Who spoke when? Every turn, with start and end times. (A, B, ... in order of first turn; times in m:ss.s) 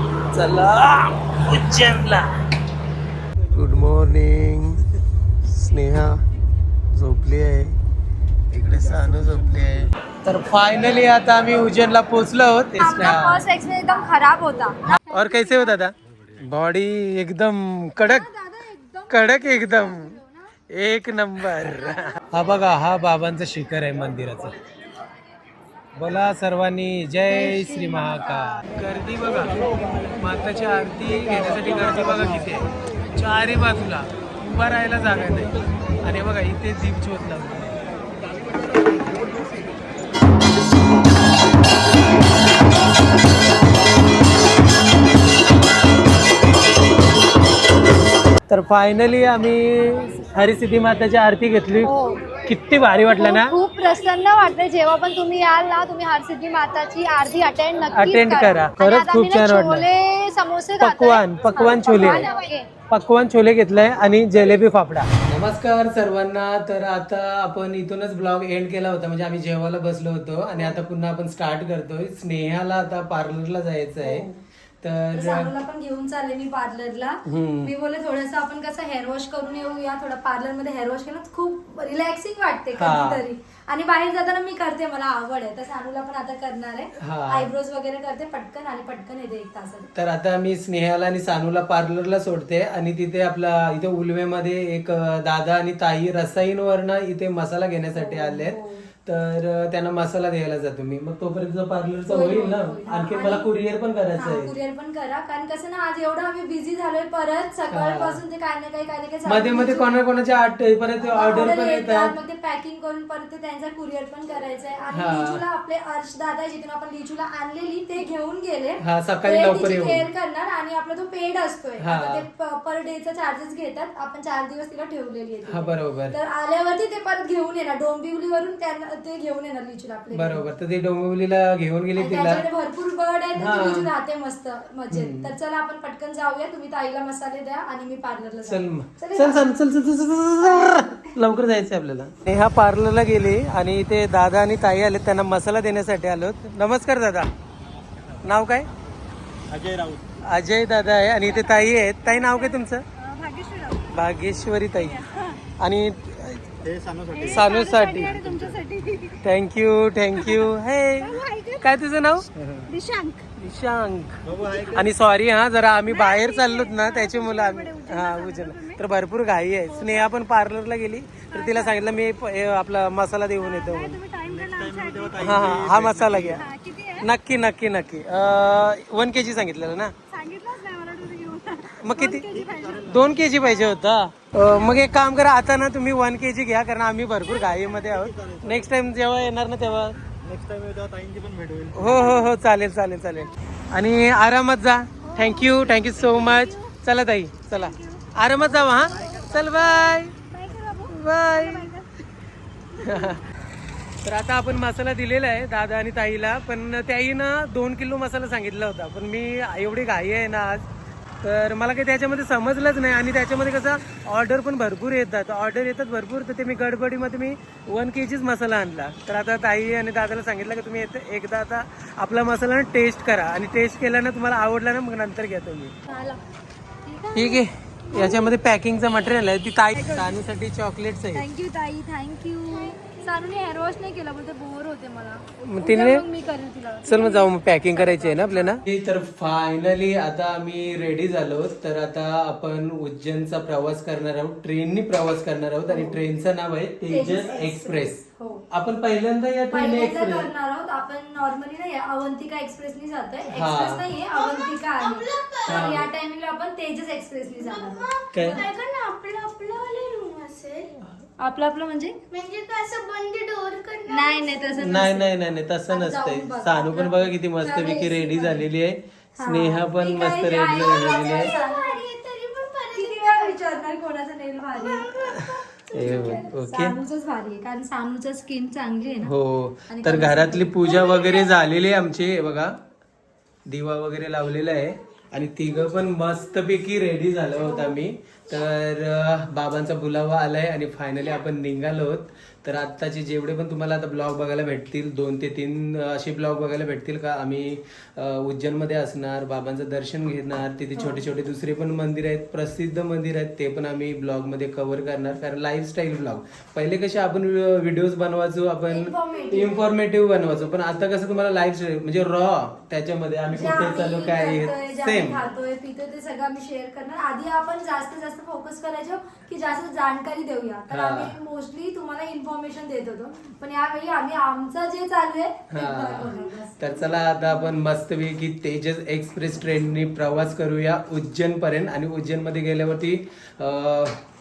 0:00.3-0:02.2 A
0:03.5-0:04.8 A
0:05.4-0:06.2 A
0:06.9-0:07.8 A
0:08.5-0:13.4 A
0:12.8-0:15.8 B
0:14.9-0:18.2 A
0:18.0-0:20.5 B
0:19.1-0:20.2 A
0:20.7-0:24.5 A
0:26.0-0:29.6 A
0:27.3-0:28.8 B
0:30.2-0:37.8 A
0:38.5-0:39.7 C
0:48.5-0:51.9 A
0:51.8-0:52.2 B
0:52.4-0:53.6 A
0:53.1-1:02.7 B
0:57.9-0:59.9 A
1:00.8-1:02.3 A
1:02.9-1:14.3 A
1:14.0-1:14.3 B
1:14.8-1:15.5 A
1:15.1-1:29.9 B
1:17.2-1:17.7 A
1:22.8-1:23.2 A
1:27.0-1:27.5 A
1:29.9-1:44.5 A
1:38.0-1:38.8 B
1:42.1-1:43.5 B
1:44.2-1:49.9 B
1:47.7-1:48.2 A
1:49.2-1:52.1 A
1:51.0-2:10.4 B
1:54.9-1:55.4 A
1:58.8-2:00.1 A
2:01.8-2:02.2 A
2:05.5-2:06.2 A
2:10.1-2:12.4 A
2:12.0-2:19.6 B
2:13.4-2:13.9 A
2:14.9-2:15.3 A
2:18.5-2:27.3 A
2:20.4-2:21.1 B
2:27.6-2:28.2 C
2:28.2-2:28.7 A
2:29.5-2:30.1 C
2:30.2-2:32.8 A
2:31.2-2:34.0 B
2:33.9-2:35.0 A
2:34.9-2:35.4 B
2:35.6-2:36.4 A
2:36.6-2:38.6 C
2:37.1-2:39.2 B
2:37.3-2:38.2 A
2:39.2-2:42.3 A
2:41.2-2:41.6 D
2:42.4-2:42.7 C
2:42.7-2:43.2 B
2:43.4-2:54.0 A
2:44.2-2:44.9 C
2:46.1-2:47.5 D
2:46.1-2:48.8 B
2:49.7-2:50.1 B
2:51.3-2:51.8 B
2:53.4-2:55.6 B
2:54.2-2:56.4 C
2:55.2-2:56.4 A
2:56.4-2:57.1 B
2:57.0-2:59.9 A
3:00.1-3:02.8 B
3:01.8-3:02.2 A
3:02.3-3:03.1 C
3:02.9-3:10.0 A
3:03.4-3:03.8 B
3:04.5-3:04.9 B
3:07.5-3:08.7 C
3:10.2-3:12.1 C
3:11.8-3:20.1 A
3:15.1-3:16.7 D
3:17.6-3:18.0 D
3:18.7-3:19.5 B
3:19.0-3:19.3 C
3:19.0-3:21.7 D
3:20.3-3:20.9 B
3:20.9-3:21.7 A
3:22.8-3:23.2 A
3:24.0-3:30.7 A
3:31.2-3:45.7 A
3:45.9-3:46.2 B
3:46.8-3:48.3 B
3:47.1-3:51.2 A
3:49.7-3:50.2 B
3:51.1-3:58.6 B
3:55.4-3:56.0 A
3:56.9-4:10.3 A
4:05.7-4:06.0 B
4:06.9-4:08.4 B
4:09.5-4:18.4 B
4:13.3-4:13.8 A
4:14.1-4:15.8 D
4:15.5-4:15.9 A
4:17.4-4:20.7 D
4:18.1-4:18.4 A
4:21.2-4:22.0 B
4:22.1-4:24.6 D
4:23.9-4:25.1 B
4:24.6-4:31.3 A
4:25.7-4:28.4 B
4:29.2-4:31.8 B
4:30.6-4:33.6 D
4:32.7-4:34.9 B
4:34.6-4:36.3 D
4:35.1-4:36.8 A
4:35.7-4:39.1 B
4:39.0-4:42.6 A
4:39.7-4:41.2 B
4:43.5-5:15.2 A
4:47.4-4:47.8 B
5:00.8-5:01.0 B
5:08.7-5:09.7 B
5:13.3-5:26.6 B
5:20.7-5:21.1 A
5:25.5-5:34.0 A